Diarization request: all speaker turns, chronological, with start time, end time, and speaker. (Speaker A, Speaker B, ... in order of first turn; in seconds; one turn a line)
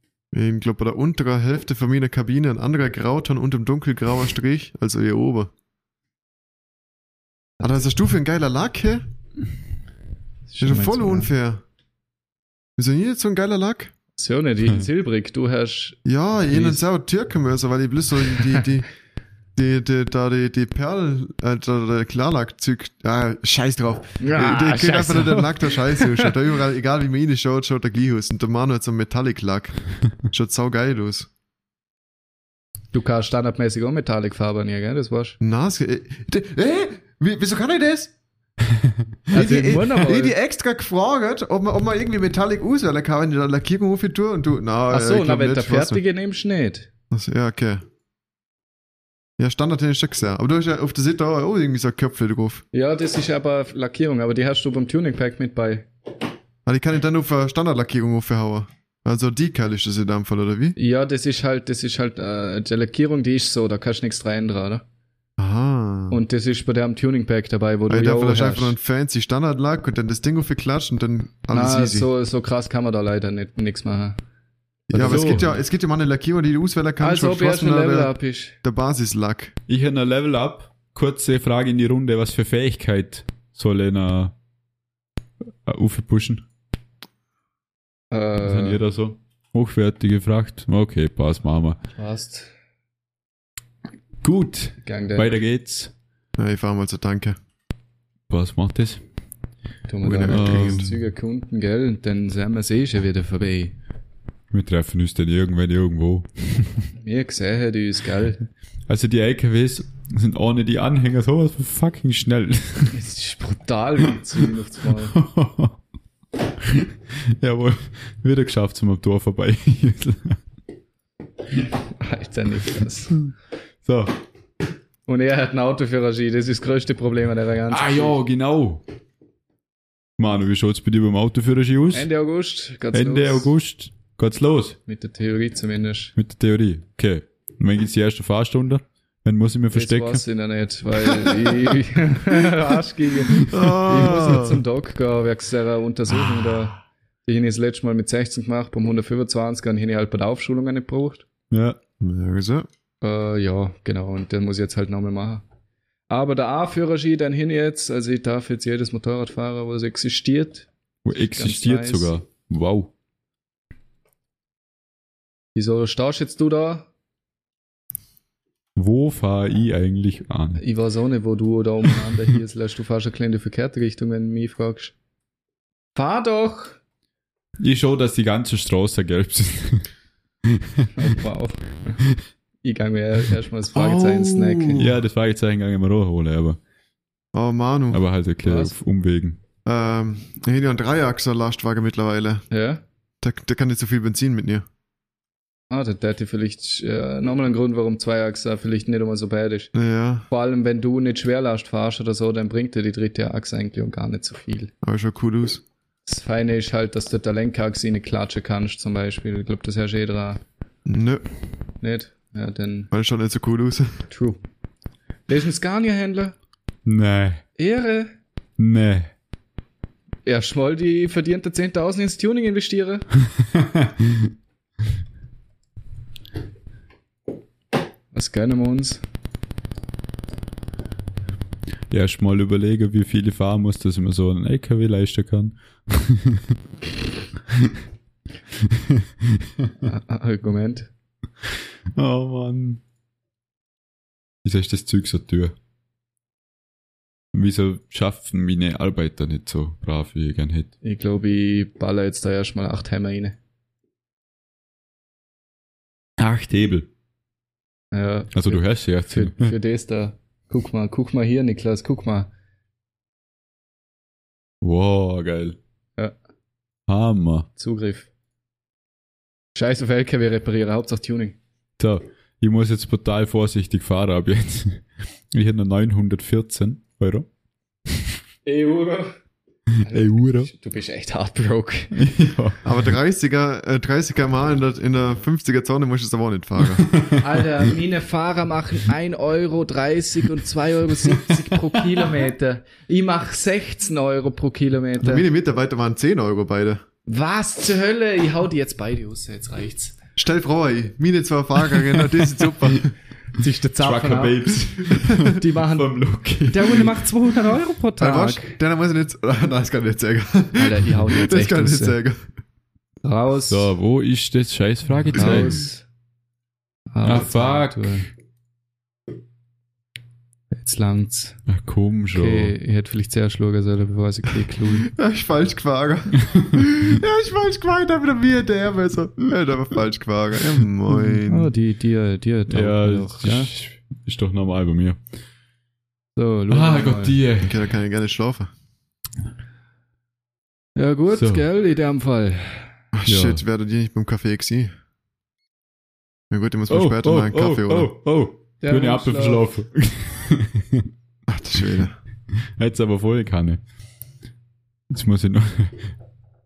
Speaker A: 0.3-5.5
Speaker A: 7.6-9.0
Speaker B: 10.5-11.3
Speaker A: 10.6-11.6
Speaker A: 12.8-13.9
Speaker B: 14.2-16.8
Speaker A: 16.1-18.9
Speaker A: 19.6-29.8
Speaker B: 24.2-26.3
Speaker A: 30.3-31.3
Speaker B: 32.9-35.4
Speaker A: 35.4-38.1
Speaker B: 39.3-40.4
Speaker A: 39.3-46.0
Speaker B: 44.9-46.9
Speaker A: 47.1-47.8
Speaker A: 49.4-52.6
Speaker B: 52.7-55.9
Speaker A: 56.7-60.8
Speaker B: 60.8-64.8
Speaker A: 65.4-66.2
Speaker B: 66.1-68.8
Speaker A: 67.9-72.1
Speaker B: 71.5-74.2
Speaker B: 74.9-75.5
Speaker A: 74.9-79.5
Speaker B: 77.0-78.6
Speaker C: 79.7-84.3
Speaker C: 85.7-86.4
Speaker B: 88.1-88.8
Speaker C: 88.4-91.8
Speaker B: 92.0-92.5
Speaker C: 94.2-95.9
Speaker B: 94.8-95.3
Speaker A: 96.4-97.4
Speaker C: 98.3-99.0
Speaker B: 99.9-103.8
Speaker A: 100.0-101.0
Speaker C: 100.3-100.9
Speaker C: 104.5-106.8
Speaker B: 107.0-108.5
Speaker C: 108.9-113.0
Speaker B: 112.9-115.2
Speaker C: 115.1-115.8
Speaker C: 116.6-120.4
Speaker B: 122.0-123.2
Speaker C: 123.8-124.1
Speaker B: 125.1-128.2
Speaker C: 127.7-128.8
Speaker C: 130.2-132.1
Speaker B: 131.9-133.5
Speaker C: 132.9-134.8
Speaker B: 134.9-136.1
Speaker C: 136.2-140.2
Speaker B: 139.7-151.3
Speaker A: 143.5-144.6
Speaker C: 151.5-151.8
Speaker A: 152.0-152.7
Speaker B: 153.0-155.4
Speaker B: 156.1-160.7
Speaker C: 161.1-162.9
Speaker B: 161.3-162.1
Speaker B: 165.6-166.9
Speaker C: 168.8-170.6
Speaker B: 170.6-174.9
Speaker B: 176.0-176.8
Speaker C: 177.6-179.9
Speaker C: 180.4-180.9
Speaker B: 180.9-182.0
Speaker B: 182.6-184.8
Speaker A: 183.7-184.9
Speaker C: 184.8-186.6
Speaker A: 187.3-188.0
Speaker C: 187.9-189.4
Speaker B: 188.4-188.8
Speaker A: 189.7-192.4
Speaker B: 192.5-192.8
Speaker A: 193.2-194.7
Speaker B: 195.7-199.7
Speaker A: 199.7-200.3
Speaker B: 200.3-204.7
Speaker A: 204.8-205.6
Speaker B: 206.1-210.4
Speaker A: 210.9-211.2
Speaker B: 211.8-212.9
Speaker A: 212.9-213.9
Speaker B: 214.1-214.4
Speaker B: 215.3-216.3
Speaker C: 216.8-217.4
Speaker B: 217.6-218.1
Speaker C: 218.6-219.1
Speaker B: 220.3-223.1
Speaker C: 223.5-224.3
Speaker B: 228.1-229.0
Speaker C: 231.9-236.5
Speaker C: 237.5-237.8
Speaker C: 238.7-239.8
Speaker B: 239.8-240.9
Speaker C: 241.9-242.8
Speaker C: 244.4-245.6
Speaker C: 247.3-250.7
Speaker B: 250.8-253.4
Speaker C: 256.2-256.9
Speaker B: 257.9-262.3
Speaker C: 258.3-259.5
Speaker C: 264.6-265.6
Speaker C: 266.9-267.5
Speaker B: 267.6-268.1
Speaker B: 269.6-271.4
Speaker C: 271.8-277.3
Speaker B: 278.4-279.1
Speaker B: 279.8-281.9
Speaker C: 279.9-280.5
Speaker C: 281.9-282.7
Speaker A: 282.6-286.9
Speaker C: 286.6-287.2
Speaker B: 287.2-295.3
Speaker C: 290.9-292.1
Speaker A: 295.0-296.8
Speaker B: 297.1-300.0
Speaker A: 300.2-302.9
Speaker B: 303.4-304.6
Speaker C: 303.8-307.0
Speaker A: 304.9-305.1
Speaker B: 305.2-305.9
Speaker B: 306.5-308.6
Speaker A: 308.0-312.2
Speaker B: 310.6-312.0
Speaker B: 313.0-313.7
Speaker C: 313.5-315.7
Speaker B: 315.1-315.9
Speaker B: 316.9-318.1
Speaker C: 317.0-318.0
Speaker B: 320.5-321.4
Speaker C: 321.5-322.5
Speaker B: 322.1-324.9
Speaker A: 324.9-331.5
Speaker C: 326.2-326.7
Speaker B: 330.9-333.5
Speaker C: 332.5-335.0
Speaker B: 336.2-337.2
Speaker C: 336.5-337.6
Speaker A: 337.4-338.5
Speaker B: 340.8-342.7
Speaker C: 341.1-341.4
Speaker A: 342.9-344.7
Speaker C: 343.1-343.4
Speaker A: 346.3-347.9
Speaker C: 346.7-350.9
Speaker B: 348.6-349.5
Speaker A: 351.3-352.0
Speaker C: 352.6-353.6
Speaker C: 354.9-355.9